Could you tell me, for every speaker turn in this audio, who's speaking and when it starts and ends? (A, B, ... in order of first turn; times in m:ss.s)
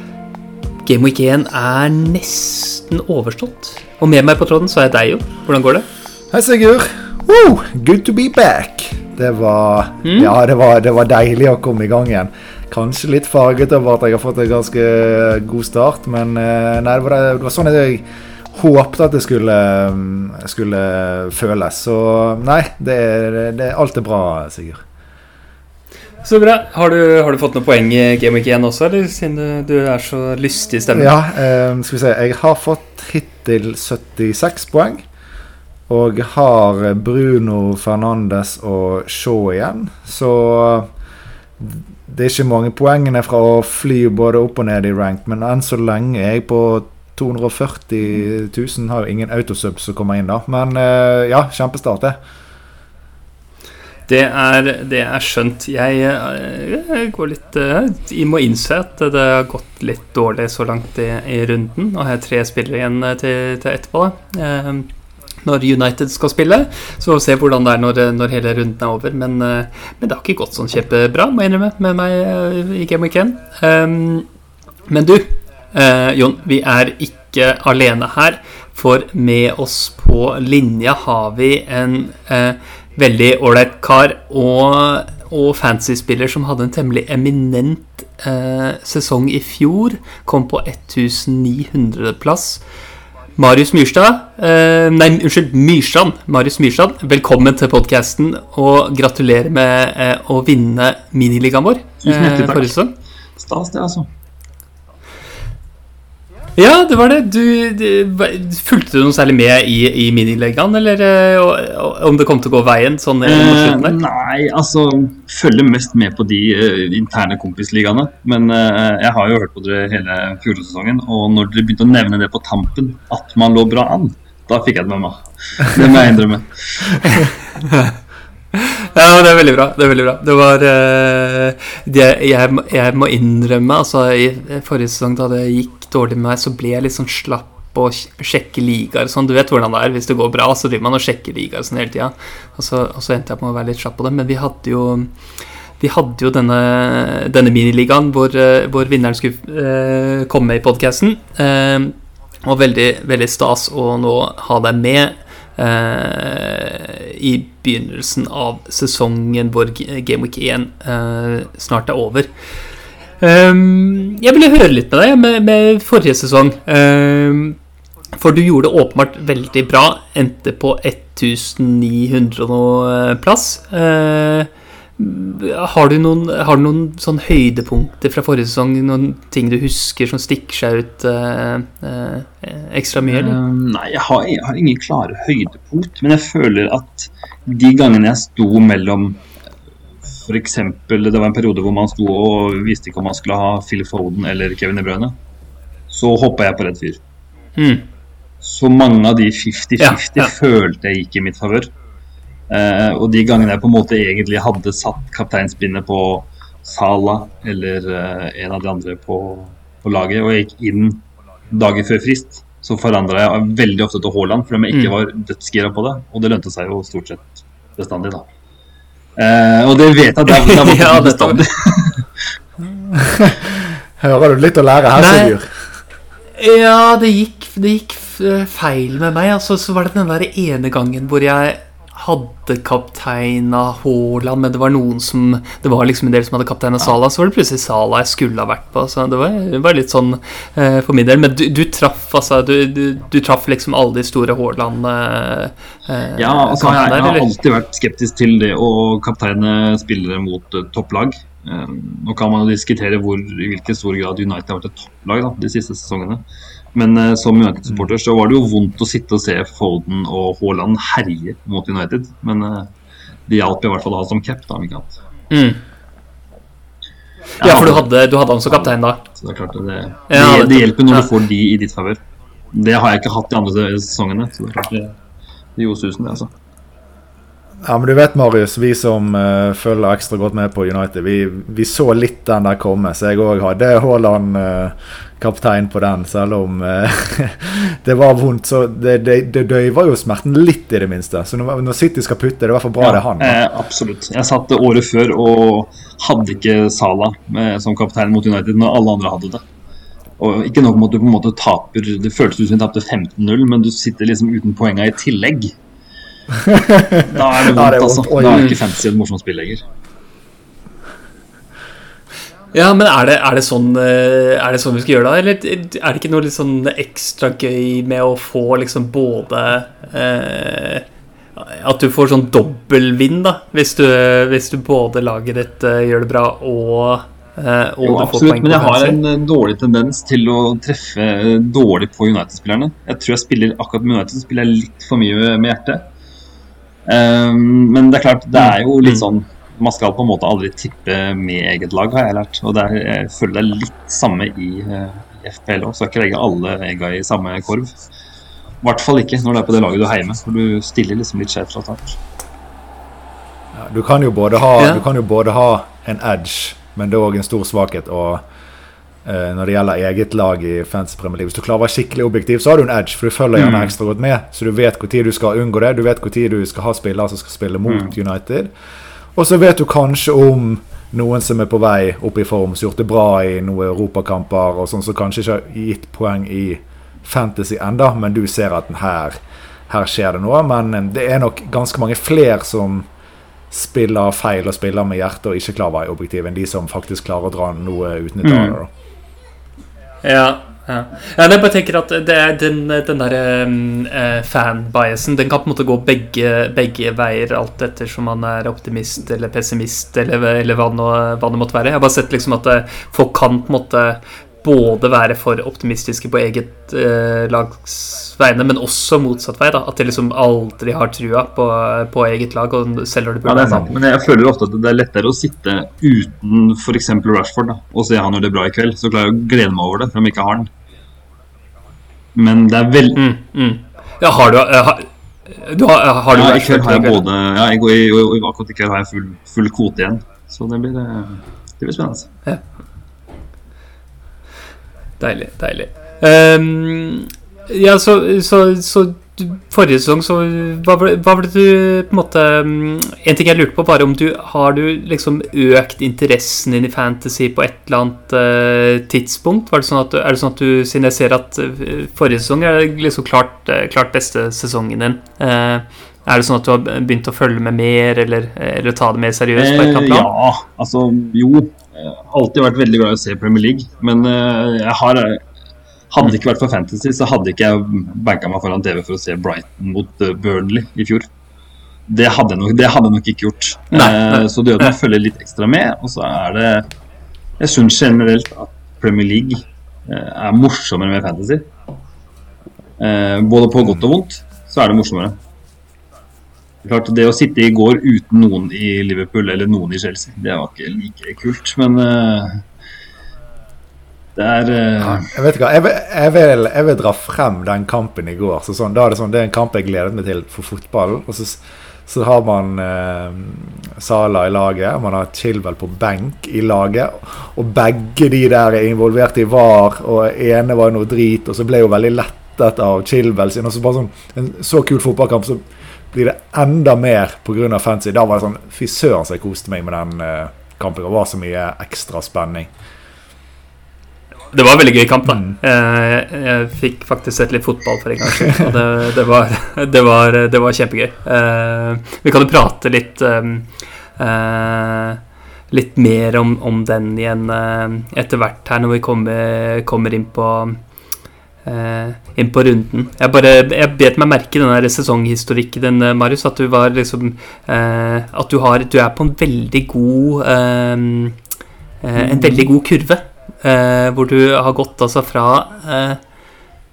0:00.8-0:05.9 A
0:06.3-0:24.8 B
0:10.0-0:10.3 A
0:26.2-0:31.1 A
0:30.9-0:35.0 B
0:35.9-0:40.9 B
0:41.6-0:52.2 B
0:54.1-1:04.9 A
1:05.4-1:14.3 A
1:14.9-1:32.6 A
1:33.4-1:42.9 A
1:42.0-1:42.7 C
1:43.4-1:44.1 C
1:46.6-1:54.0 A
1:53.2-2:07.2 C
2:07.0-2:07.9 A
2:08.5-2:25.1 A
2:25.8-2:42.3 A
2:43.2-2:47.6 A
2:48.1-3:03.4 A
3:03.1-3:09.2 C
3:10.1-3:15.2 C
3:15.9-3:17.0 C
3:17.6-3:17.8 A
3:18.4-3:21.7 C
3:19.8-3:20.3 A
3:22.5-3:38.2 C
3:39.2-3:42.1 C
3:40.2-3:41.4 A
3:42.8-3:45.7 B
3:44.9-3:45.3 A
3:46.4-4:07.4 A
4:06.2-4:16.2 C
4:16.7-4:22.7 C
4:23.3-4:25.0 C
4:25.3-4:25.6 A
4:27.4-4:27.9 C
4:27.4-4:29.0 A
4:28.5-4:32.0 C
4:30.1-4:31.1 A
4:32.5-4:35.0 C
4:35.6-4:36.3 C
4:37.6-4:53.4 B
4:52.8-4:59.4 C
5:00.2-5:05.6 C
5:06.3-5:08.6 B
5:07.1-5:09.6 C
5:12.5-5:29.0 A
5:27.8-5:35.9 C
5:36.8-5:47.8 C
5:38.4-5:39.0 A
5:48.6-5:52.0 C
5:53.5-5:58.2 B
5:59.0-6:08.5 B
6:03.4-6:03.7 C
6:09.1-6:19.2 B
6:19.7-6:22.9 B
6:23.5-6:28.7 B
6:28.2-6:28.6 C
6:30.0-6:53.7 A
6:53.2-7:00.5 C
7:02.1-7:03.0 C
7:02.9-7:07.0 A
7:06.1-7:12.1 C
7:15.0-7:40.1 A
7:39.4-7:45.2 C
7:45.9-7:51.1 C
7:51.9-7:56.7 C
7:53.7-7:54.7 A
7:57.4-8:01.5 C
8:02.8-8:05.2 C
8:06.6-8:12.4 C
8:14.2-8:15.1 C
8:14.8-8:42.5 B
8:44.3-9:00.6 A
8:45.1-8:45.3 B
9:01.4-9:11.2 A
9:11.8-9:16.0 A
9:12.1-9:12.4 C